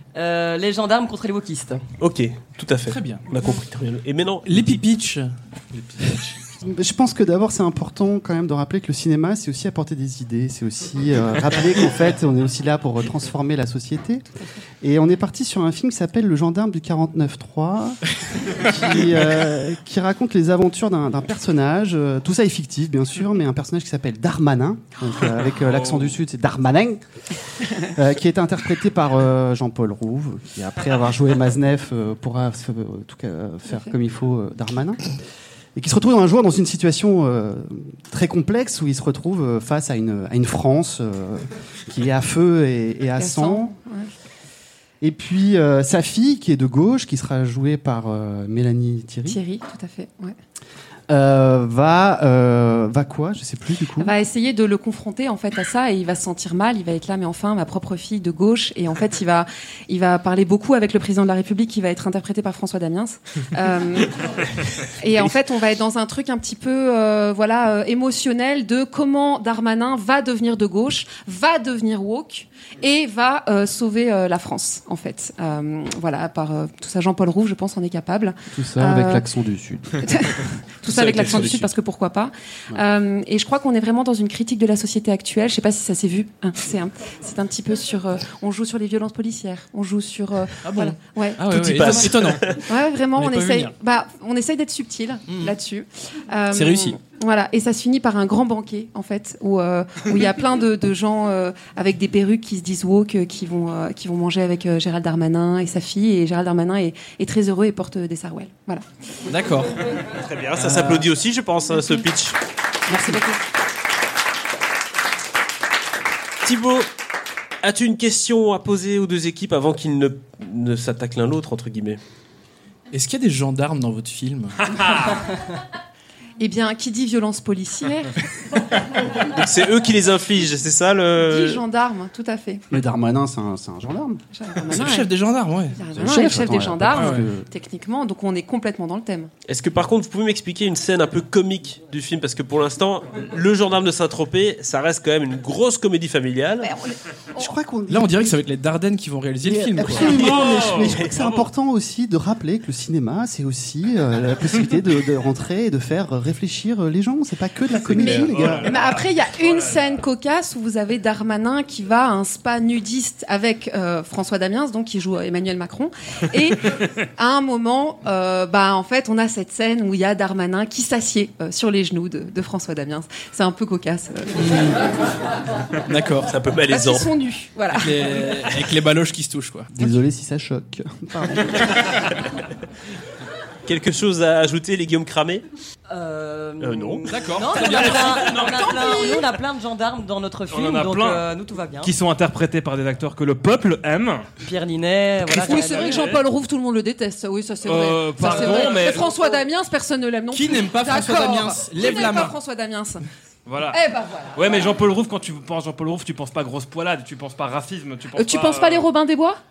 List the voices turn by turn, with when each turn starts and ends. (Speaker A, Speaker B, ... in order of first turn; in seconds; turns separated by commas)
Speaker A: 0.1-1.8, Speaker B: 2.0-4.8, Speaker C: 2.9-3.2, Speaker C: 4.5-5.3, Speaker D: 5.7-6.2, Speaker C: 6.0-6.3, Speaker E: 6.6-14.3, Speaker E: 14.8-27.0, Speaker D: 25.5-26.2, Speaker E: 27.8-35.0, Speaker E: 35.8-43.7, Speaker F: 43.2-44.1, Speaker E: 45.0-49.4, Speaker F: 49.3-50.4, Speaker E: 51.1-54.1, Speaker F: 54.0-64.2, Speaker F: 64.8-79.3, Speaker E: 78.5-80.0, Speaker F: 80.0-108.9, Speaker E: 81.2-81.6, Speaker C: 90.6-92.6, Speaker B: 91.5-92.6, Speaker C: 93.1-93.7, Speaker C: 95.3-95.5, Speaker C: 96.5-97.0, Speaker C: 109.3-109.8, Speaker B: 110.1-112.4, Speaker C: 110.6-111.1, Speaker F: 112.9-113.3, Speaker B: 116.4-116.9, Speaker B: 117.6-122.0, Speaker C: 122.9-125.1, Speaker D: 124.7-125.2, Speaker F: 126.4-128.2, Speaker B: 129.2-131.6, Speaker F: 131.3-132.7, Speaker E: 132.7-134.2, Speaker F: 134.3-135.1, Speaker C: 134.7-135.8, Speaker F: 135.7-139.3, Speaker E: 135.9-137.5, Speaker C: 136.9-137.3, Speaker B: 139.5-146.7, Speaker F: 146.6-147.5, Speaker E: 147.4-148.3, Speaker C: 147.9-150.1, Speaker E: 149.4-158.7, Speaker D: 150.0-151.5, Speaker B: 150.1-151.1, Speaker B: 157.9-158.6, Speaker D: 157.9-159.8, Speaker F: 158.0-174.8, Speaker C: 174.4-174.8, Speaker C: 175.9-176.3, Speaker B: 176.3-177.1, Speaker F: 176.7-178.3, Speaker C: 177.8-179.9, Speaker E: 179.7-181.9, Speaker B: 183.7-185.4, Speaker A: 185.9-191.9, Speaker B: 186.6-187.1, Speaker C: 187.1-188.3, Speaker D: 187.5-189.0, Speaker F: 188.6-189.2, Speaker D: 190.5-191.2, Speaker D: 191.8-194.3, Speaker A: 194.4-196.1, Speaker F: 195.3-203.1, Speaker D: 195.4-196.2, Speaker D: 197.7-199.1, Speaker C: 200.3-202.3, Speaker D: 203.5-203.8, Speaker F: 203.7-204.7, Speaker D: 204.3-208.9, Speaker F: 208.2-209.4